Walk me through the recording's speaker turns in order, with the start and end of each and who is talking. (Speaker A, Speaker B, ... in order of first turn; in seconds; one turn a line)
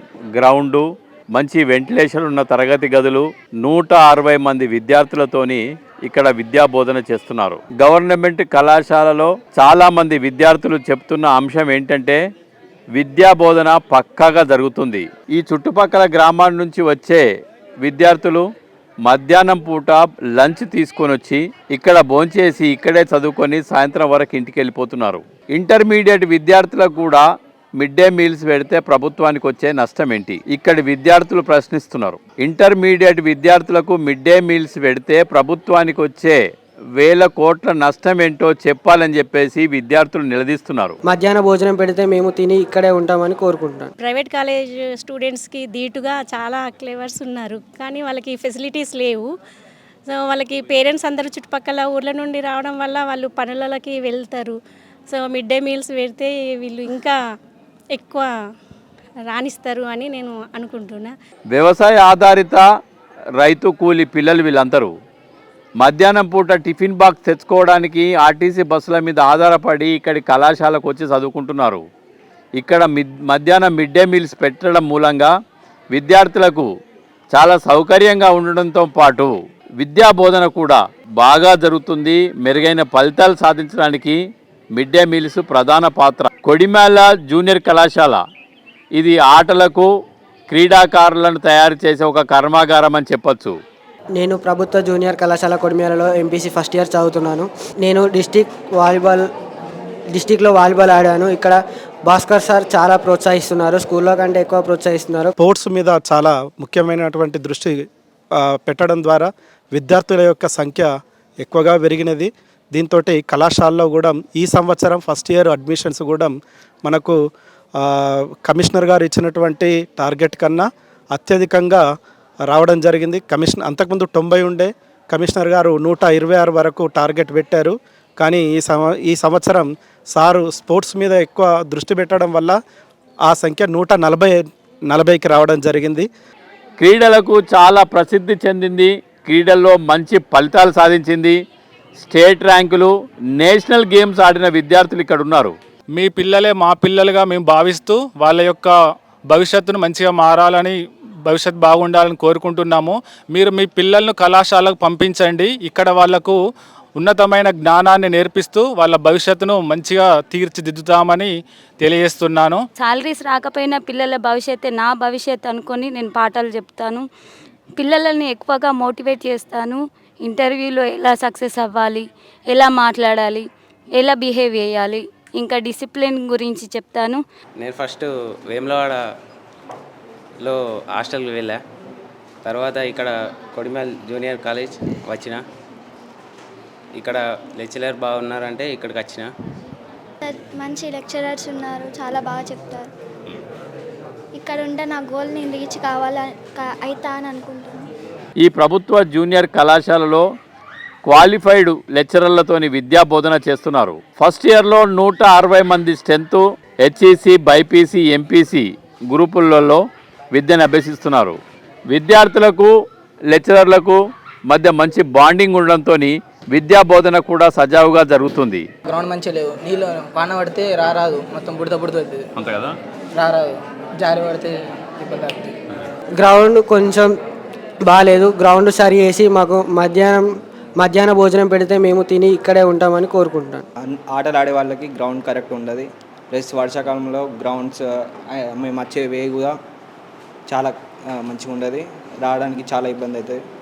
Speaker A: 0.3-12.2
Speaker A: 12.9-17.2
Speaker A: 17.8-18.4
Speaker A: 19.1-27.2
Speaker A: 27.8-36.4
Speaker A: 37.0-41.0
Speaker B: 41.1-43.9
Speaker C: 44.0-49.3
Speaker C: 50.1-54.6
Speaker C: 55.1-57.1
Speaker C: 57.9-58.3
Speaker C: 59.3-61.1
Speaker A: 61.5-62.6
Speaker A: 63.4-64.9
Speaker A: 65.8-71.8
Speaker A: 72.6-75.3
Speaker A: 75.9-76.7
Speaker A: 77.3-84.2
Speaker A: 84.7-88.2
Speaker A: 89.0-89.9
Speaker A: 90.5-93.5
Speaker B: 94.2-99.2
Speaker B: 100.1-105.3
Speaker D: 105.4-107.8
Speaker D: 108.4-110.9
Speaker D: 111.4-116.3
Speaker D: 116.8-117.2
Speaker D: 117.8-121.8
Speaker D: 122.5-132.6
Speaker D: 133.3-134.4
Speaker D: 134.9-136.1
Speaker A: 136.8-141.4
Speaker A: 142.0-145.5
Speaker E: 146.0-148.7
Speaker E: 149.3-156.4
Speaker E: 156.9-162.6
Speaker F: 162.8-167.1
Speaker F: 167.8-177.2
Speaker G: 177.6-179.0
Speaker G: 180.4-181.6
Speaker G: 182.4-185.3
Speaker G: 187.0-189.2
Speaker H: 190.2-192.9
Speaker H: 194.3-197.8
Speaker A: 198.4-200.2
Speaker A: 201.1-209.8
Speaker A: 210.3-212.7
Speaker A: 213.3-218.6
Speaker I: 218.8-222.2
Speaker A: 222.4-222.7
Speaker I: 223.2-225.5
Speaker B: 226.2-227.1
Speaker B: 227.8-230.2
Speaker B: 230.8-233.6
Speaker J: 233.8-239.6
Speaker J: 240.5-243.4